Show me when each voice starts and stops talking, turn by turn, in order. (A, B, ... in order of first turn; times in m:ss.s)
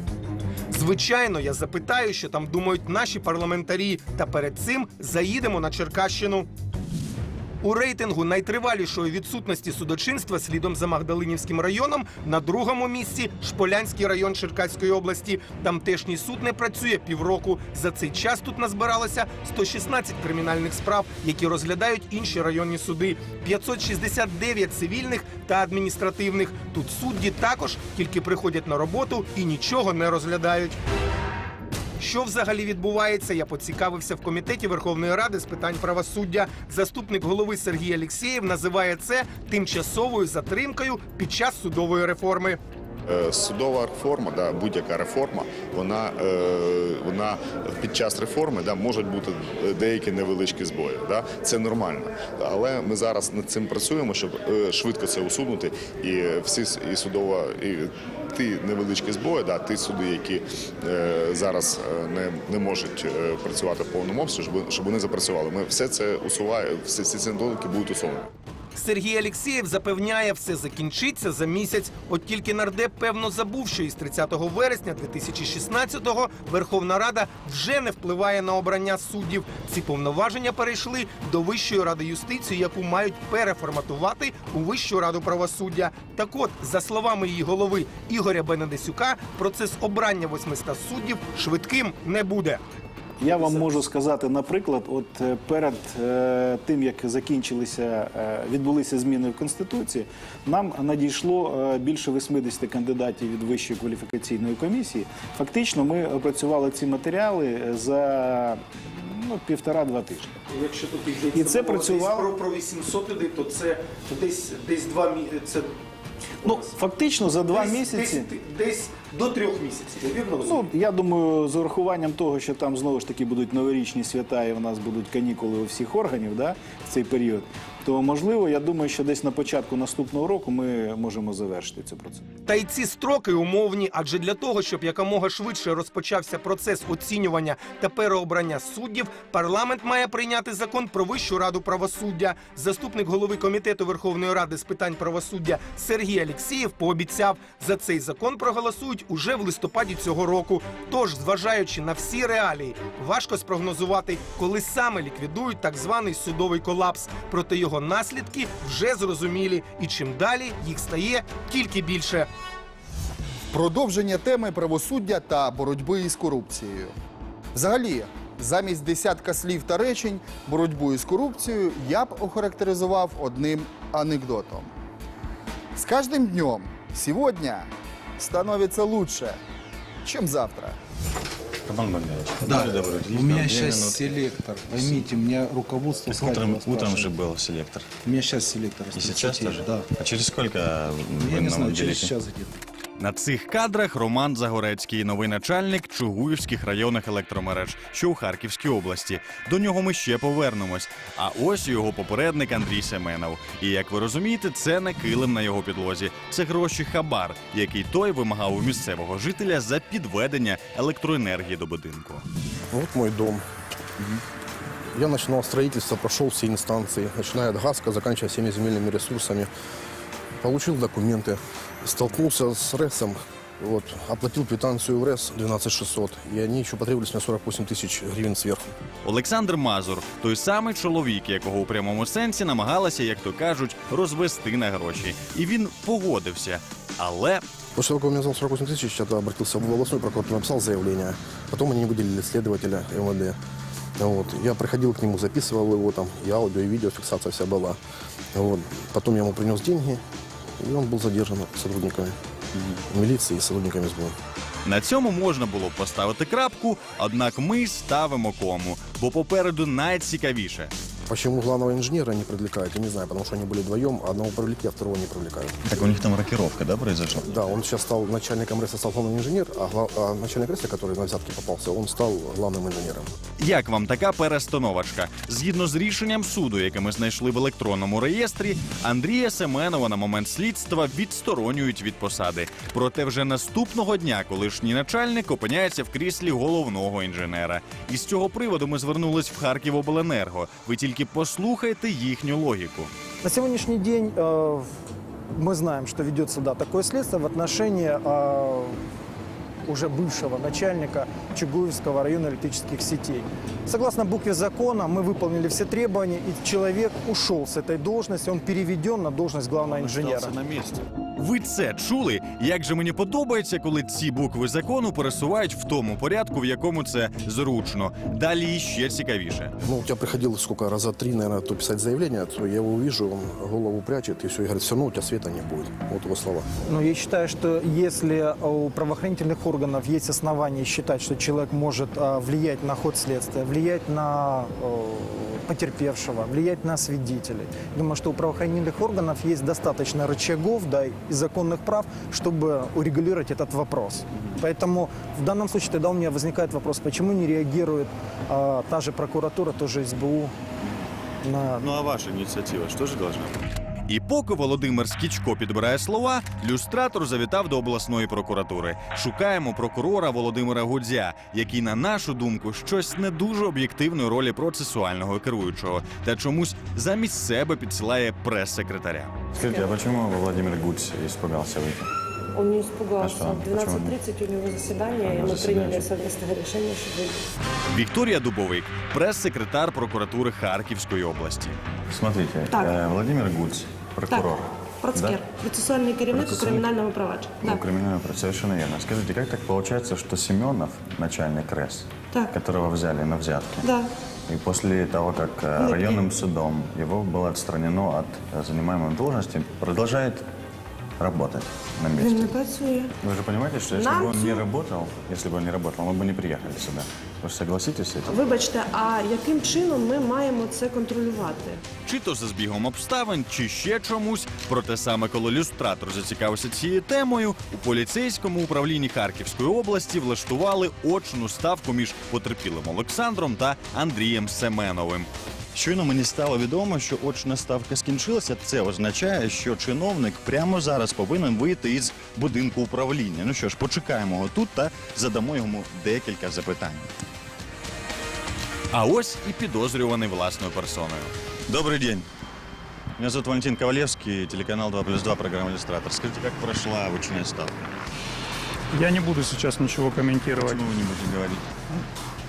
0:00.7-0:06.5 A
0:07.6-0:30.8 A
0:32.0-0:42.6 A
0:43.1-1:08.3 B
1:08.8-1:32.6 A
1:33.2-1:50.4 C
1:50.5-1:55.7 A
1:51.3-1:52.3 C
1:56.4-1:56.7 A
1:56.4-1:58.3 C
1:57.5-2:00.6 A
2:00.4-2:12.3 C
2:12.4-2:42.3 A
2:43.5-2:46.9 D
2:47.5-2:54.7 D
2:55.8-2:59.4 D
3:00.0-3:00.8 D
3:01.6-3:05.1 E
3:02.4-3:07.1 F
3:06.1-3:07.9 E
3:08.0-3:09.9 F
3:08.9-3:12.1 E
3:11.2-3:12.5 F
3:13.0-3:32.2 G
3:32.7-3:33.4 H
3:34.9-3:39.5 H
3:40.4-3:48.7 H
3:49.0-3:57.4 G
3:57.7-4:03.4 H
4:04.0-4:07.8 H
4:08.3-4:10.0 H
4:10.6-4:12.2 H
4:12.9-4:14.2 H
4:14.6-4:20.7 G
4:21.1-4:25.6 H
4:25.6-4:27.3 E
4:27.3-4:33.1 H
4:33.4-4:52.9 G
4:53.2-4:54.7 I
4:55.3-4:58.8 I
4:59.6-5:10.4 I
5:09.6-5:10.8 E
5:11.2-5:19.5 G
5:19.6-5:26.5 H
5:26.7-5:50.4 I
5:51.2-5:51.7 I
5:51.6-5:53.4 E
5:53.9-6:09.2 G
6:09.3-6:11.9 E
6:12.3-6:17.2 J
6:13.0-6:14.0 E
6:15.0-6:15.9 E
6:17.7-6:21.6 G
6:21.9-6:25.2 E
6:22.5-6:22.8 J
6:24.1-6:27.6 J
6:26.1-6:26.7 E
6:27.4-6:33.6 E
6:33.6-6:33.9 J
6:34.3-6:40.2 E
6:35.6-6:36.1 J
6:41.0-6:42.3 E
6:42.0-6:42.9 J
6:43.0-6:48.2 E
6:43.7-6:44.4 J
6:48.1-6:51.6 J
6:51.8-7:05.1 G
7:05.5-7:16.9 E
7:18.7-7:21.1 G
7:21.5-7:22.1 E
7:23.0-7:27.7 E
7:28.7-7:30.6 K
7:30.4-7:31.6 E